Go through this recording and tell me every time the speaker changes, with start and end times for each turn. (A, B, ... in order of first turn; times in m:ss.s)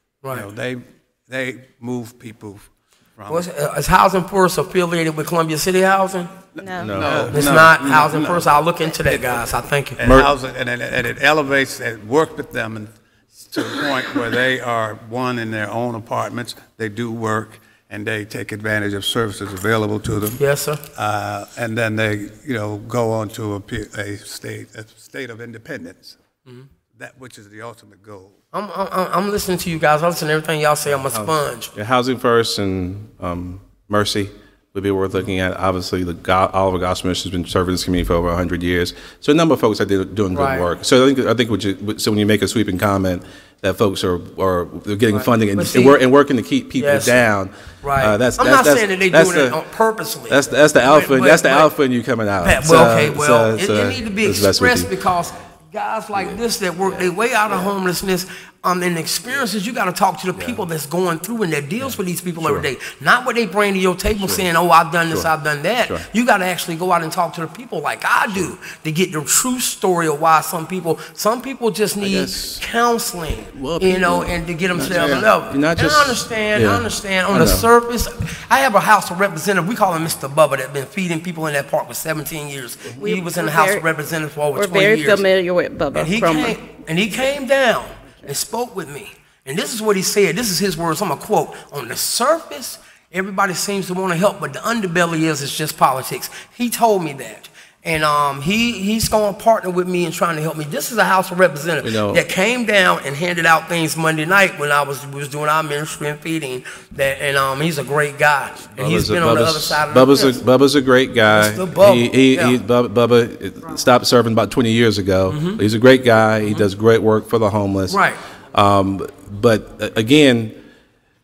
0:00.3-0:03.5 A
0:03.2-0:06.3 B
0:06.6-0:06.9 C
0:06.8-0:07.3 D
0:06.9-0:08.5 A
0:07.1-0:10.0 B
0:09.0-0:09.3 A
0:10.0-0:12.9 A
0:10.0-0:10.3 D
0:13.4-0:20.4 A
0:20.4-0:20.8 B
0:20.9-0:26.2 A
0:26.9-0:28.3 A
0:28.5-0:31.7 B
0:31.1-0:49.6 D
0:40.3-0:40.7 B
0:45.1-0:46.0 B
0:46.8-0:47.2 B
0:47.8-0:51.7 B
0:50.3-0:54.9 D
0:52.4-1:25.3 B
0:56.1-0:57.7 D
1:00.3-1:00.6 D
1:01.8-1:02.7 D
1:04.2-1:04.5 D
1:12.0-1:12.6 D
1:13.5-1:17.7 D
1:22.9-1:23.8 C
1:24.5-1:26.6 C
1:25.9-1:50.4 B
1:41.8-1:42.2 D
1:48.7-1:58.0 D
1:51.3-1:52.6 B
1:55.3-1:55.6 B
1:56.4-1:56.7 B
1:57.9-1:58.2 B
1:58.5-2:00.5 D